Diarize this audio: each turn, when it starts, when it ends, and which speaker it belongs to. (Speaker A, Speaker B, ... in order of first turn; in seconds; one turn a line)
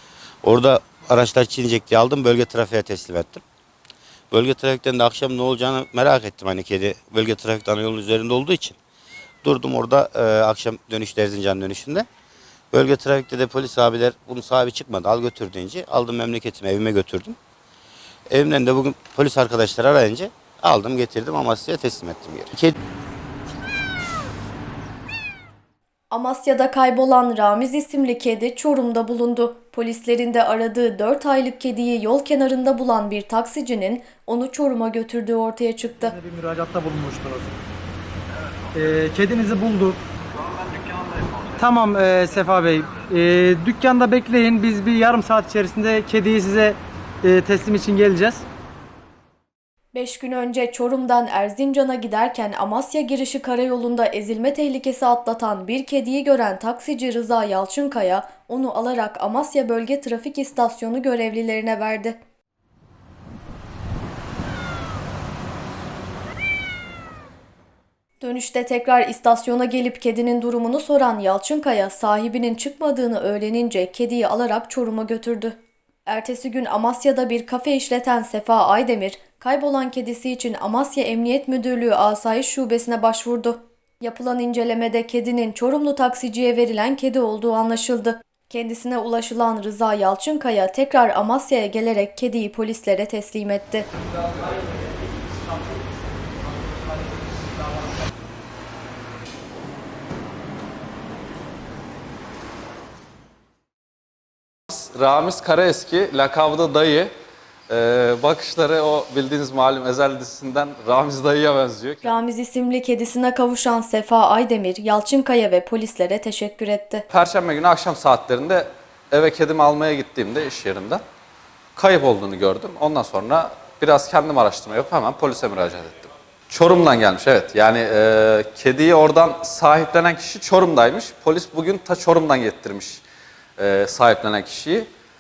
Speaker A: 0.4-3.4
Speaker A: 4.3-8.8
Speaker A: 9.4-12.1
Speaker A: 12.7-17.4
Speaker A: 18.3-22.7
Speaker B: 26.1-36.1
Speaker C: 36.0-37.5
Speaker C: 38.7-40.0
Speaker C: 41.5-48.4
Speaker B: 49.9-62.2
Speaker B: 68.2-93.9
Speaker D: 104.7-107.1
Speaker D: 107.7-112.1
Speaker B: 112.0-117.0
Speaker D: 117.1-121.0
Speaker D: 121.8-133.0
Speaker D: 133.6-134.9